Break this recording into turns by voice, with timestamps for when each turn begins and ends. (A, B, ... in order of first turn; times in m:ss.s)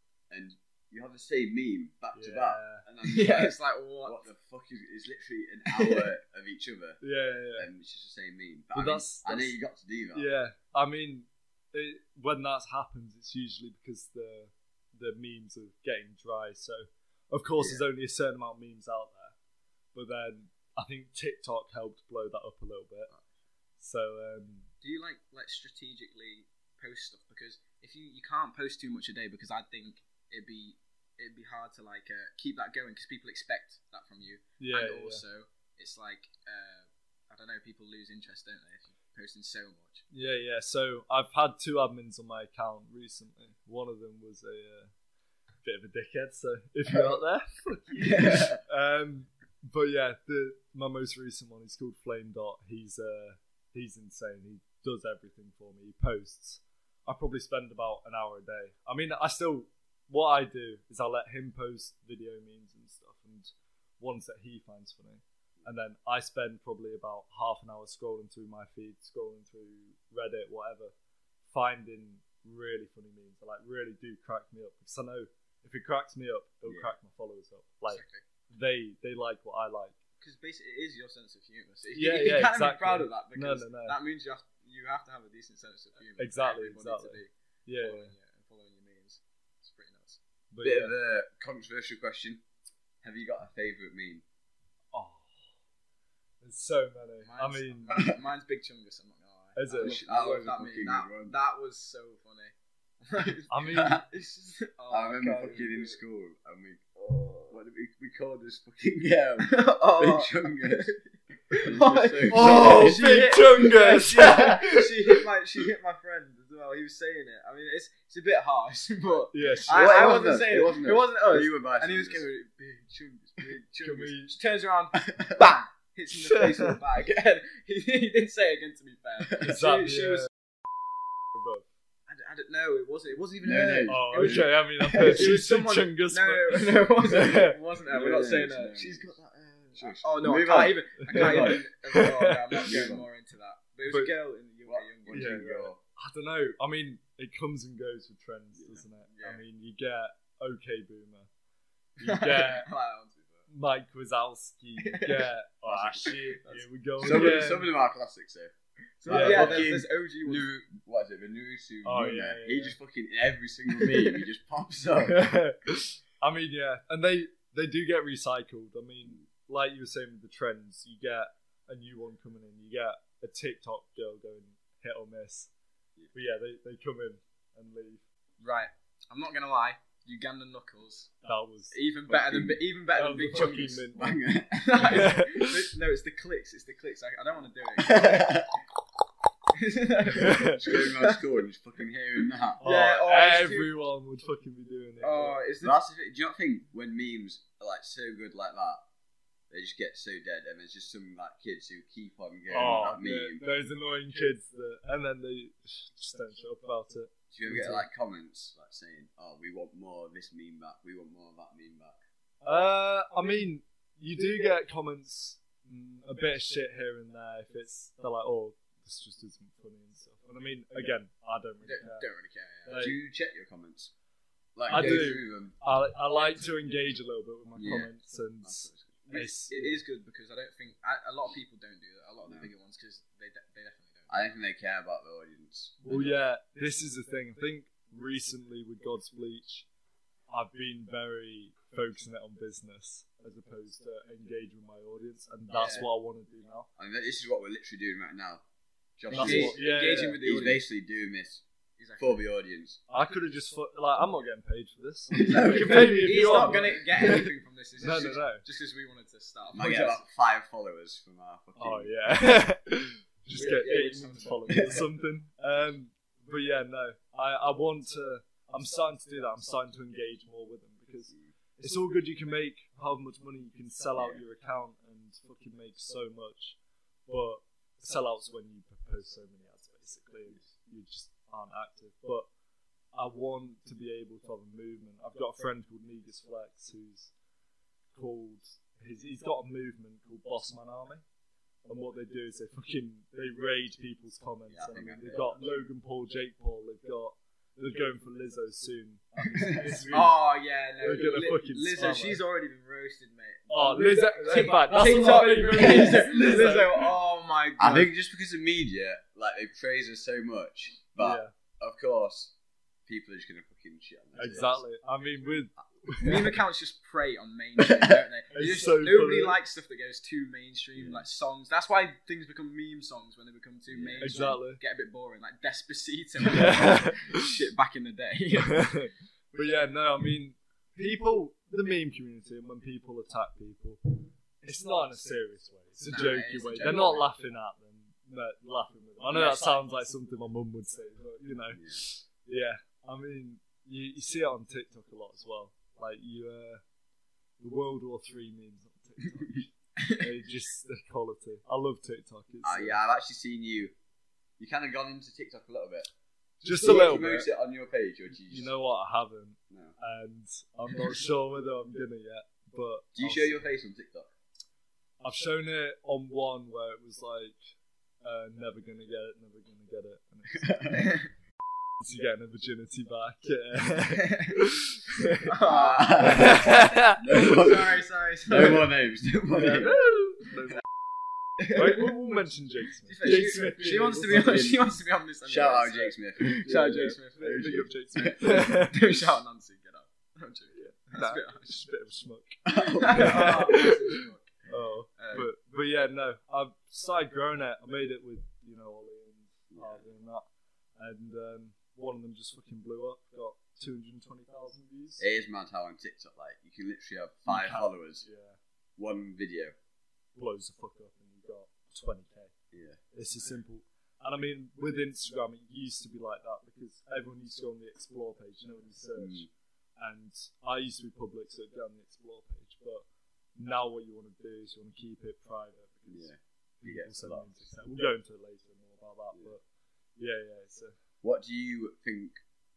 0:00.3-0:07.0 A
0:02.1-0:02.8 B
0:03.0-0:04.2 C
0:05.7-0:06.1 C
0:07.0-0:07.7 B
0:07.6-0:10.3 A
0:08.7-0:09.6 B
0:10.1-0:19.3 B
0:17.6-0:17.8 A
0:19.9-0:23.1 B
0:23.8-0:24.7 B
0:24.8-0:40.0 C
0:34.6-0:35.2 B
0:40.1-0:44.9 B
0:45.6-1:10.9 B
0:48.0-0:48.5 C
0:48.2-0:48.5 A
1:11.5-1:20.0 B
1:16.6-1:16.9 A
1:17.9-1:18.2 C
1:20.2-1:30.2 C
1:21.9-1:24.0 B
1:26.2-1:28.1 B
1:30.5-1:30.9 B
1:30.6-1:32.4 A
1:33.0-1:34.2 A
1:34.9-1:35.5 B
1:36.4-1:38.0 B
1:37.2-1:46.0 C
1:39.5-1:40.0 B
1:39.8-1:41.3 A
1:43.5-1:44.0 B
1:43.7-1:44.0 A
1:44.9-1:46.9 A
1:47.0-1:47.6 C
1:47.5-1:51.0 A
1:49.4-2:10.3 C
1:51.5-1:53.2 A
1:52.3-1:55.2 B
1:59.3-1:59.9 B
1:59.6-2:02.2 A
2:03.8-2:04.3 B
2:05.0-2:05.6 A
2:06.1-2:06.8 B
2:09.4-2:10.3 B
2:11.3-2:11.7 B
2:12.1-2:25.7 C
2:13.4-2:15.3 A
2:13.9-2:17.6 B
2:17.8-2:19.2 A
2:19.7-2:21.6 A
2:21.0-2:22.8 B
2:22.6-2:23.1 A
2:24.7-2:25.8 A
2:25.1-2:31.3 B
2:28.5-2:28.8 A
2:32.0-2:33.2 C
2:32.0-2:32.7 B
2:33.5-2:37.7 B
2:34.8-2:35.3 C
2:35.6-2:36.1 A
2:36.0-2:37.5 C
2:37.0-2:38.5 A
2:39.0-2:40.4 C
2:39.0-2:45.3 A
2:39.1-2:39.7 B
2:41.8-2:42.7 B
2:43.9-2:44.2 C
2:45.0-2:55.5 B
2:56.1-2:58.0 B
2:58.4-3:01.1 C
3:01.2-3:01.7 B
3:01.7-3:08.4 C
3:02.1-3:02.6 A
3:02.9-3:04.2 B
3:04.0-3:05.1 A
3:04.8-3:05.6 B
3:07.8-3:08.5 A
3:09.5-3:11.4 C
3:10.1-3:10.6 B
3:10.2-3:12.6 A
3:12.6-3:13.7 C
3:12.6-3:15.4 B
3:15.0-3:15.8 C
3:15.6-3:18.8 A
3:19.5-3:23.4 A
3:22.5-3:27.8 B
3:27.3-3:32.0 A
3:32.4-3:42.1 B
3:41.6-3:42.8 C
3:42.6-3:43.0 B
3:42.7-3:43.9 A
3:44.6-3:45.5 A
3:44.7-3:49.8 B
3:44.7-3:45.0 C
3:47.6-3:47.9 A
3:48.4-3:49.0 A
3:49.1-3:54.3 C
3:52.2-3:52.5 A
3:54.1-3:56.2 A
3:55.8-3:59.7 B
4:00.3-4:06.7 B
4:05.5-4:05.9 C
4:06.8-4:08.4 A
4:09.0-4:11.4 A
4:09.1-4:10.2 B
4:09.1-4:10.6 C
4:11.8-4:12.2 C
4:12.0-4:12.8 A
4:12.9-4:18.4 B
4:15.1-4:16.5 A
4:15.2-4:20.0 C
4:19.5-4:22.2 A
4:21.6-4:42.3 B
4:23.3-4:24.9 C
4:34.0-4:34.2 A
4:42.9-4:47.1 B
4:47.9-4:51.0 B
4:51.6-5:00.1 B
4:54.5-4:55.4 A
4:59.4-4:59.8 A
4:59.8-5:07.9 C
5:00.8-5:02.2 B
5:03.5-5:06.9 B
5:07.6-5:12.3 A
5:11.0-5:11.3 B
5:12.9-5:14.6 A
5:14.2-5:16.4 B
5:16.0-5:28.8 C
5:17.6-5:18.0 A
5:18.3-5:19.4 B
5:20.8-5:21.0 A
5:23.7-5:24.2 A
5:24.0-5:24.6 B
5:26.2-5:27.4 B
5:28.4-5:46.6 B
5:35.8-5:37.1 C
5:39.0-5:39.6 C
5:41.5-5:41.8 A
5:47.4-5:52.8 B
5:49.8-5:50.0 C
5:52.4-5:53.7 A
5:54.4-5:55.9 A
5:56.4-5:57.3 B
5:56.5-5:58.5 A
5:58.3-6:03.4 B
5:59.5-5:59.8 A
6:02.9-6:04.1 A
6:05.0-6:10.8 B
6:10.3-6:11.0 A
6:10.8-6:11.1 C
6:11.8-6:15.3 B
6:13.9-6:14.4 C
6:15.2-6:18.7 C
6:15.4-6:19.9 A
6:16.0-6:17.4 B
6:19.3-6:20.6 B
6:21.4-6:21.9 C
6:21.5-6:24.3 B
6:22.8-6:27.6 C
6:23.6-6:24.7 A
6:25.2-6:28.7 A
6:26.4-6:28.8 B
6:28.2-6:31.6 C
6:30.6-6:40.2 B
6:32.4-6:33.6 A
6:32.6-6:35.3 C
6:39.5-6:39.8 A
6:40.8-6:45.0 B
6:45.0-6:48.0 A
6:47.3-6:48.4 B
6:48.8-6:49.5 A
6:50.1-6:52.3 B
6:52.5-6:52.8 A
6:52.9-6:59.3 B
6:59.0-6:59.3 A
6:59.8-7:02.8 B
7:03.4-7:09.4 B
7:05.9-7:07.4 A
7:10.0-7:10.7 B
7:11.0-7:12.2 A